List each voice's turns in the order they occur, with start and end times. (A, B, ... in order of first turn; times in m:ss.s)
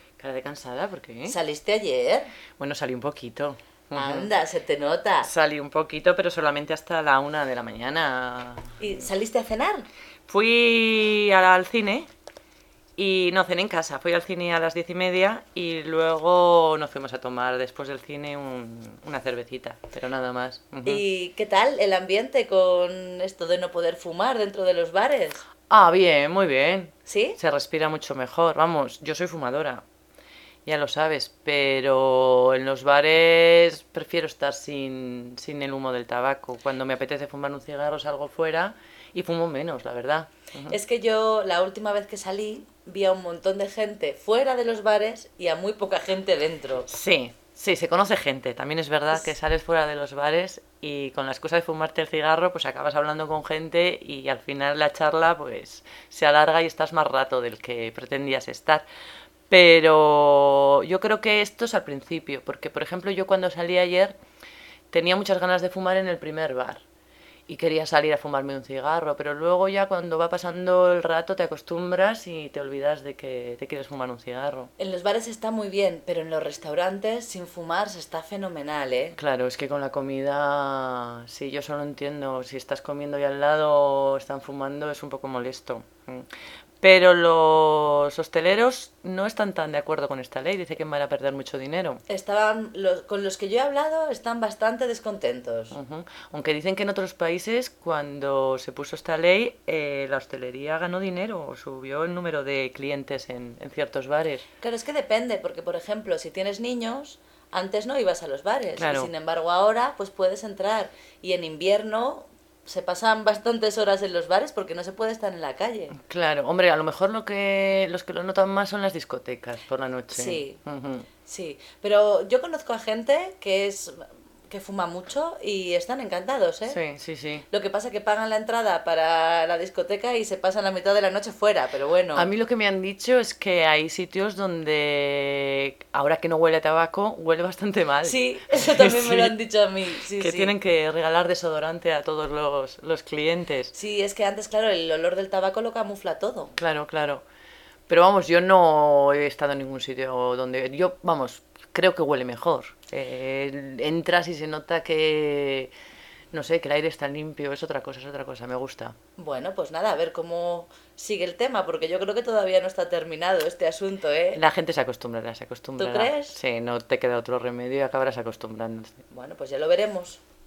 0:00.2-0:01.4 A
0:01.2-0:02.3 B
0:02.6-0:04.3 A
0:03.9-0:05.3 B
0:05.2-0:08.8 A
0:08.8-0:09.8 B
0:10.3-0:12.1 A
0:13.0-0:21.0 A
0:20.8-0:25.4 B
0:25.7-0:29.8 A
0:27.0-0:27.4 B
0:30.6-0:40.8 A
0:40.7-0:46.9 B
0:46.9-0:58.8 A
0:59.5-1:04.2 A
1:04.9-1:06.8 A
1:07.5-1:14.7 A
1:14.8-1:19.2 B
1:19.2-1:26.3 A
1:26.8-1:32.0 A
1:32.1-1:35.8 B
1:35.7-1:44.4 A
1:44.6-1:56.0 B
1:48.8-1:49.1 A
1:56.0-2:01.1 A
2:00.1-2:00.6 B
2:01.2-2:06.8 B
2:06.6-2:07.4 A
2:07.5-2:12.3 B
2:12.1-2:19.3 A
2:18.0-2:20.5 B
2:20.1-2:23.7 A
2:23.7-2:26.5 B
2:26.6-2:27.2 A
2:27.9-2:35.7 A
2:36.3-2:38.9 A
2:39.2-2:44.4 B
2:44.3-2:49.0 A
2:45.8-2:46.4 B
2:49.1-2:50.2 B